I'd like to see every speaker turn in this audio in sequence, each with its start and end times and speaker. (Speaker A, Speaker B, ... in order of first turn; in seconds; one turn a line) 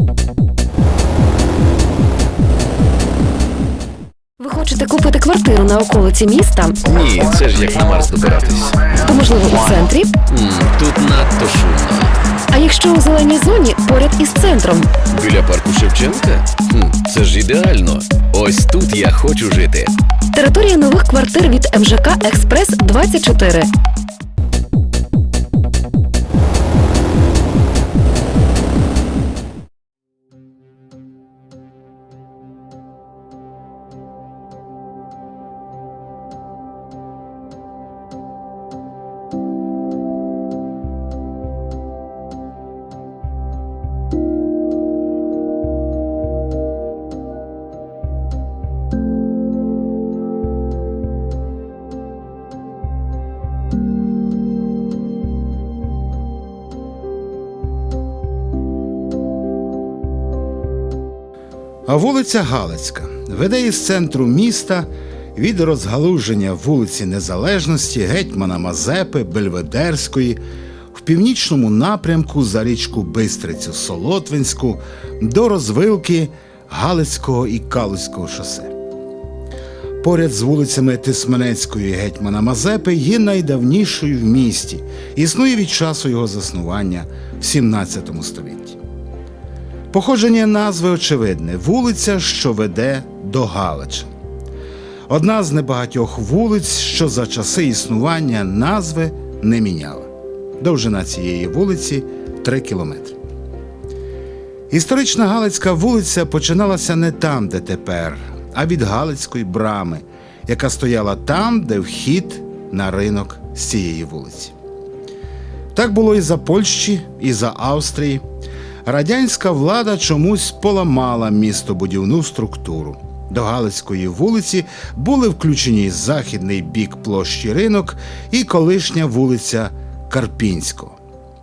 Speaker A: 4.4-6.8
Speaker B: 6.8-8.9
Speaker A: 9.0-10.2
Speaker B: 10.2-12.2
Speaker A: 12.5-15.0
Speaker B: 15.0-19.9
Speaker A: 20.3-23.7
Speaker C: 61.9-70.4
Speaker C: 70.9-78.7
Speaker C: 80.0-88.8
Speaker C: 89.9-94.1
Speaker C: 95.1-103.2
Speaker C: 104.7-114.5
Speaker C: 115.7-118.2
Speaker C: 118.8-131.0